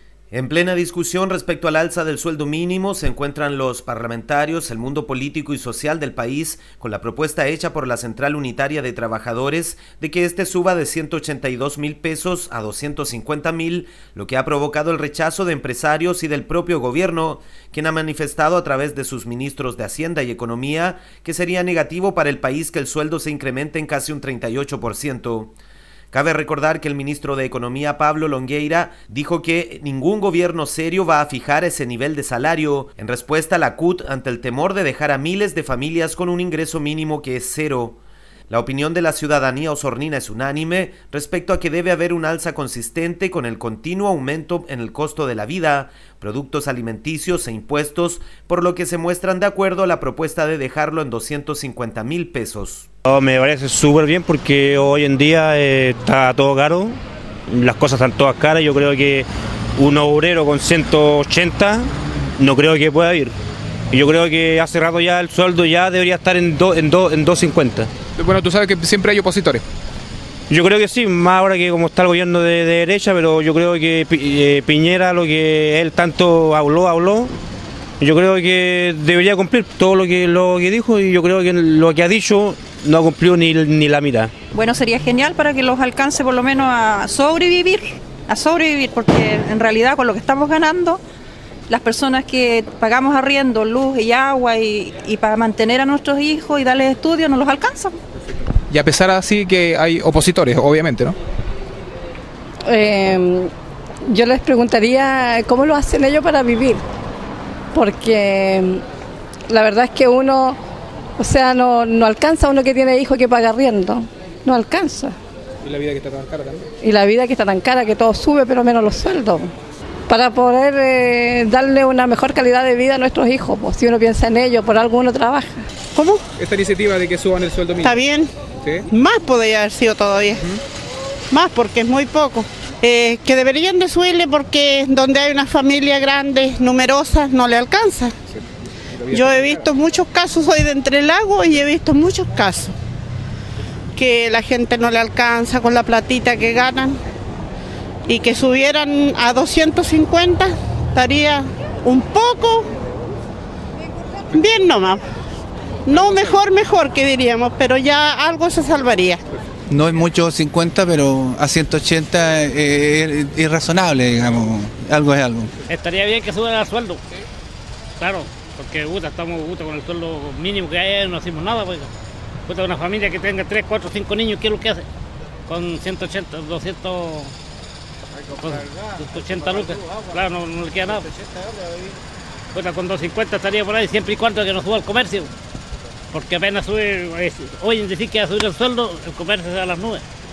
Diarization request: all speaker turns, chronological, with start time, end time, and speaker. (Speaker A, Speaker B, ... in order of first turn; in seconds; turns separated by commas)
Speaker A: 0.3-25.6, Speaker A: 26.1-52.9, Speaker B: 53.1-57.0, Speaker B: 57.5-61.9, Speaker B: 62.4-63.3, Speaker B: 63.9-67.9, Speaker C: 68.2-69.6, Speaker B: 70.5-77.3, Speaker B: 78.0-84.3, Speaker D: 84.5-87.7, Speaker D: 88.3-91.0, Speaker D: 91.7-97.9, Speaker C: 98.7-101.2, Speaker E: 102.7-103.5, Speaker E: 104.1-106.8, Speaker E: 107.7-108.8, Speaker E: 109.5-110.6, Speaker E: 111.2-115.2, Speaker C: 115.6-116.7, Speaker E: 116.8-119.5, Speaker E: 120.1-125.6, Speaker F: 126.0-126.2, Speaker C: 126.4-128.0, Speaker F: 127.8-128.3, Speaker F: 128.9-130.5, Speaker F: 131.3-138.1, Speaker C: 138.3-139.7, Speaker F: 139.1-142.8, Speaker F: 143.9-147.0, Speaker F: 148.1-152.7, Speaker F: 154.3-155.0, Speaker F: 155.9-159.2, Speaker G: 159.7-165.5, Speaker H: 165.7-167.0, Speaker H: 168.0-171.9, Speaker H: 172.5-174.9, Speaker H: 175.5-177.3, Speaker H: 178.3-181.1, Speaker H: 182.5-185.3, Speaker H: 186.1-190.1